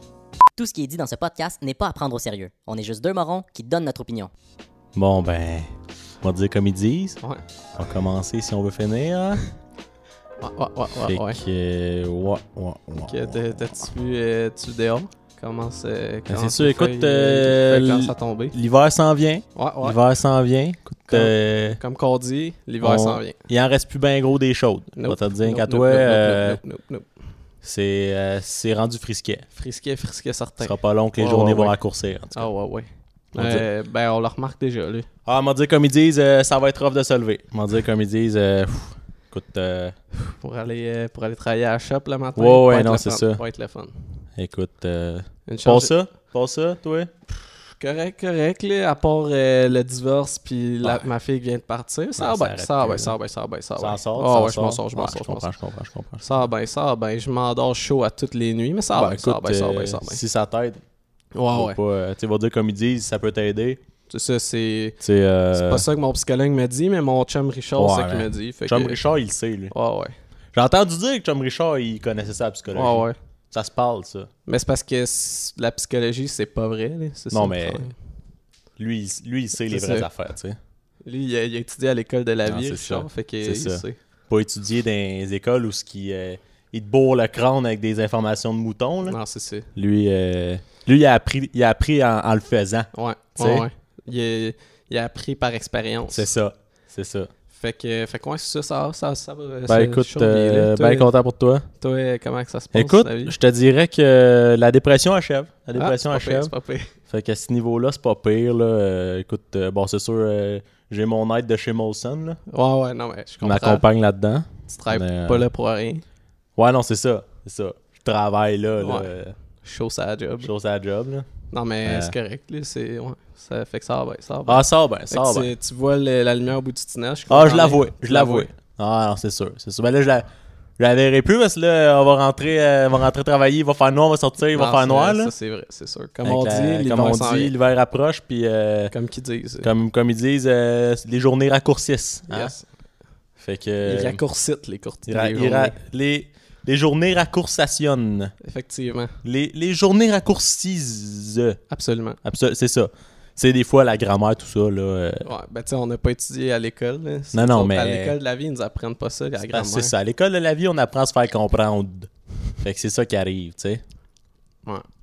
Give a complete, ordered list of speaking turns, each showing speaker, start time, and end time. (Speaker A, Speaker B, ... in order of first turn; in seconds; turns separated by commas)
Speaker A: 0.5-4.3, Speaker B: 4.9-7.2, Speaker B: 7.8-9.4, Speaker C: 10.4-11.4, Speaker B: 11.0-13.8, Speaker C: 13.0-18.5, Speaker B: 16.3-21.8, Speaker C: 19.5-20.0, Speaker C: 21.1-23.4, Speaker B: 22.8-26.6, Speaker C: 24.9-27.1, Speaker B: 27.6-29.4, Speaker C: 29.6-31.8, Speaker B: 30.6-32.5, Speaker C: 32.3-35.1, Speaker B: 33.3-33.6, Speaker B: 35.2-40.0, Speaker C: 40.2-44.2, Speaker B: 42.4-43.4, Speaker B: 44.4-47.1, Speaker C: 45.5-45.9, Speaker C: 47.8-55.5, Speaker B: 50.8-51.1, Speaker B: 52.2-53.1, Speaker B: 53.8-56.2, Speaker C: 56.2-60.2, Speaker B: 58.9-60.8, Speaker C: 61.3-61.8, Speaker B: 61.5-63.8, Speaker C: 64.1-65.0, Speaker B: 65.0-65.8, Speaker C: 65.5-69.0, Speaker B: 67.8-69.7, Speaker C: 69.7-70.2, Speaker B: 70.5-74.3, Speaker C: 72.7-73.1, Speaker C: 74.5-77.9, Speaker B: 77.3-77.9, Speaker B: 78.8-80.6, Speaker C: 79.7-80.1, Speaker C: 81.0-84.0, Speaker B: 82.5-89.2, Speaker C: 89.1-89.7, Speaker B: 89.7-93.6, Speaker C: 92.9-96.2, Speaker B: 96.1-97.3, Speaker C: 97.5-101.1, Speaker B: 99.7-101.7, Speaker C: 101.8-103.3, Speaker B: 102.7-106.5, Speaker C: 105.8-106.9, Speaker B: 107.1-112.4, Speaker C: 112.5-113.8, Speaker B: 113.4-115.4, Speaker C: 114.7-116.0, Speaker B: 116.5-119.3, Speaker C: 118.8-120.5, Speaker B: 120.4-121.3, Speaker C: 121.5-128.5, Speaker B: 121.8-122.1, Speaker B: 124.5-125.5, Speaker B: 127.3-130.3, Speaker B: 130.8-135.3, Speaker C: 134.5-137.5, Speaker B: 136.2-138.9, Speaker C: 138.9-139.7, Speaker B: 139.6-142.5, Speaker C: 142.3-142.6, Speaker B: 143.4-144.2, Speaker C: 143.8-145.8, Speaker B: 145.1-148.3, Speaker C: 148.4-149.1, Speaker B: 149.2-151.6, Speaker C: 151.7-152.2, Speaker B: 152.2-155.2, Speaker C: 155.2-159.9, Speaker B: 157.3-158.1, Speaker B: 159.5-163.8